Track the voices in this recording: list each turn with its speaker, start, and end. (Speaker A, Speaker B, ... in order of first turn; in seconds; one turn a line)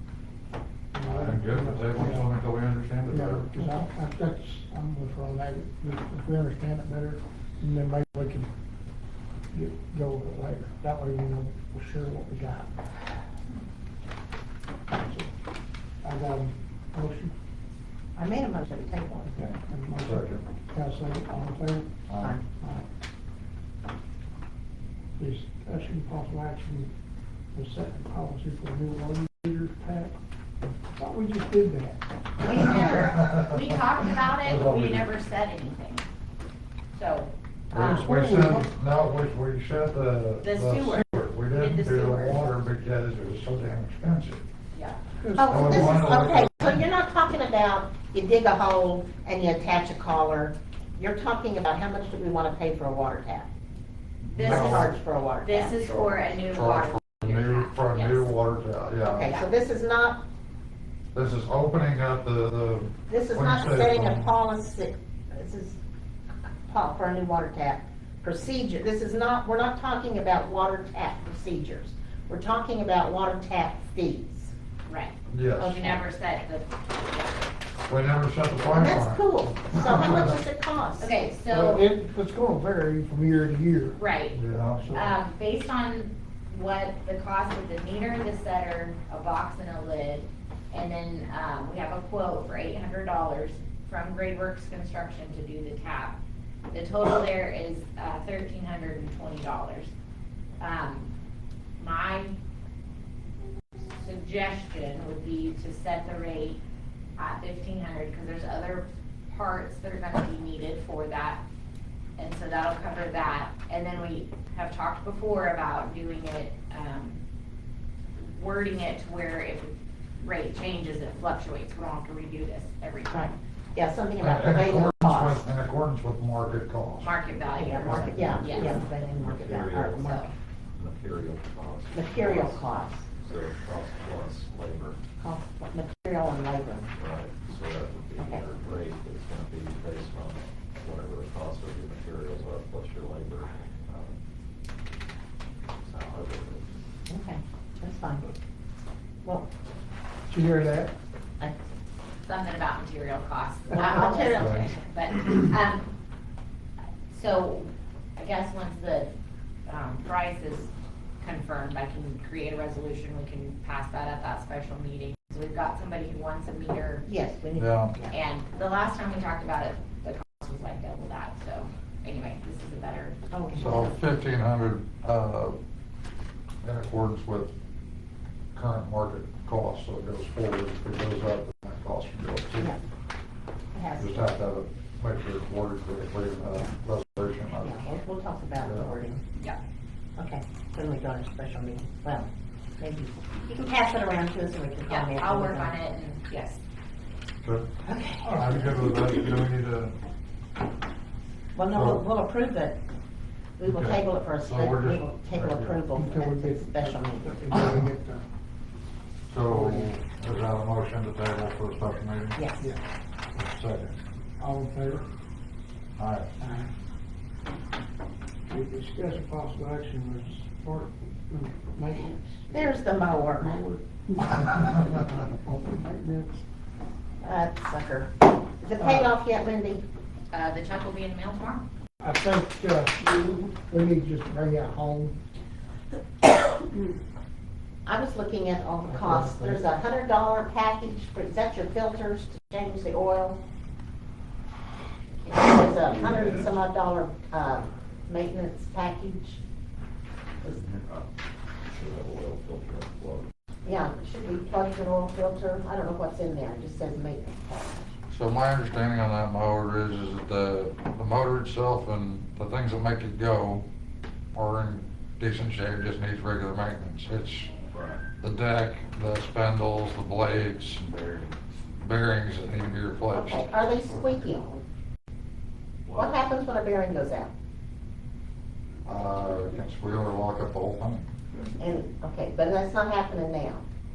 Speaker A: 0.9-2.3
Speaker B: 1.0-3.9
Speaker A: 3.1-8.5
Speaker A: 9.5-12.9
Speaker A: 14.9-15.3
Speaker A: 16.0-17.3
Speaker C: 18.2-19.3
Speaker A: 19.3-22.0
Speaker B: 19.4-20.4
Speaker B: 22.1-22.4
Speaker C: 22.2-22.4
Speaker A: 22.6-22.9
Speaker A: 25.2-26.9
Speaker A: 27.5-32.0
Speaker D: 32.4-36.1
Speaker B: 32.5-33.6
Speaker C: 32.5-33.1
Speaker B: 34.3-35.1
Speaker D: 36.9-38.1
Speaker B: 37.7-44.4
Speaker A: 37.9-38.7
Speaker D: 40.4-42.4
Speaker D: 44.7-45.0
Speaker A: 45.2-46.0
Speaker C: 45.4-53.5
Speaker B: 45.5-46.9
Speaker B: 54.3-54.9
Speaker D: 54.3-54.9
Speaker C: 54.4-56.4
Speaker D: 55.4-58.3
Speaker B: 56.5-59.3
Speaker C: 59.0-60.3
Speaker B: 61.1-64.3
Speaker C: 63.1-65.8
Speaker C: 66.6-74.5
Speaker D: 74.9-77.5
Speaker B: 75.3-76.0
Speaker B: 77.9-80.4
Speaker C: 78.7-81.2
Speaker D: 81.0-81.8
Speaker A: 81.5-84.0
Speaker D: 84.0-84.4
Speaker B: 84.3-85.1
Speaker D: 84.9-96.2
Speaker D: 96.7-99.9
Speaker D: 100.6-101.1
Speaker D: 101.8-102.3
Speaker D: 103.9-106.6
Speaker D: 107.2-111.4
Speaker D: 112.2-117.2
Speaker D: 118.2-123.3
Speaker C: 123.1-125.4
Speaker B: 124.2-127.2
Speaker D: 127.0-128.8
Speaker C: 127.5-130.3
Speaker E: 128.2-130.2
Speaker D: 129.9-130.3
Speaker E: 130.8-132.7
Speaker C: 131.9-133.1
Speaker E: 133.2-135.0
Speaker C: 135.2-136.9
Speaker E: 137.0-144.2
Speaker C: 138.2-138.4
Speaker E: 145.8-146.7
Speaker C: 147.1-148.3
Speaker A: 150.3-150.9
Speaker D: 152.2-155.9
Speaker C: 153.8-154.7
Speaker B: 154.4-154.7
Speaker D: 157.1-159.1
Speaker D: 159.7-167.1
Speaker C: 167.1-168.2
Speaker B: 167.6-167.9
Speaker D: 168.1-173.2
Speaker C: 173.3-174.0
Speaker B: 173.6-175.6
Speaker B: 176.6-177.5
Speaker B: 178.5-182.7
Speaker C: 183.7-184.3
Speaker B: 184.0-187.8
Speaker C: 187.6-189.2
Speaker B: 188.6-188.9
Speaker C: 190.2-195.8
Speaker D: 194.9-196.6
Speaker C: 197.8-198.4
Speaker B: 198.2-200.0
Speaker C: 201.5-202.8
Speaker B: 201.7-202.0
Speaker C: 203.6-207.6
Speaker B: 203.7-205.8
Speaker A: 205.9-208.3
Speaker B: 209.3-212.4
Speaker A: 209.5-209.9
Speaker C: 212.3-212.7
Speaker B: 213.3-214.0
Speaker A: 214.4-215.1
Speaker B: 216.0-216.3
Speaker A: 216.4-216.7
Speaker A: 218.5-222.7
Speaker C: 222.5-223.6
Speaker A: 223.4-226.4
Speaker C: 227.2-229.8
Speaker A: 228.8-229.1
Speaker D: 230.3-231.7
Speaker A: 232.0-235.2
Speaker C: 237.8-243.4
Speaker A: 238.9-239.6
Speaker C: 245.2-249.4
Speaker E: 250.5-251.1
Speaker E: 251.7-253.3
Speaker C: 253.6-257.9
Speaker B: 258.1-263.7
Speaker B: 264.3-267.5
Speaker E: 267.7-268.1
Speaker B: 268.1-270.9
Speaker E: 270.8-271.4
Speaker B: 271.8-273.5
Speaker C: 273.1-274.6
Speaker E: 275.9-276.3
Speaker C: 276.0-277.3
Speaker B: 278.9-281.1
Speaker C: 281.6-283.7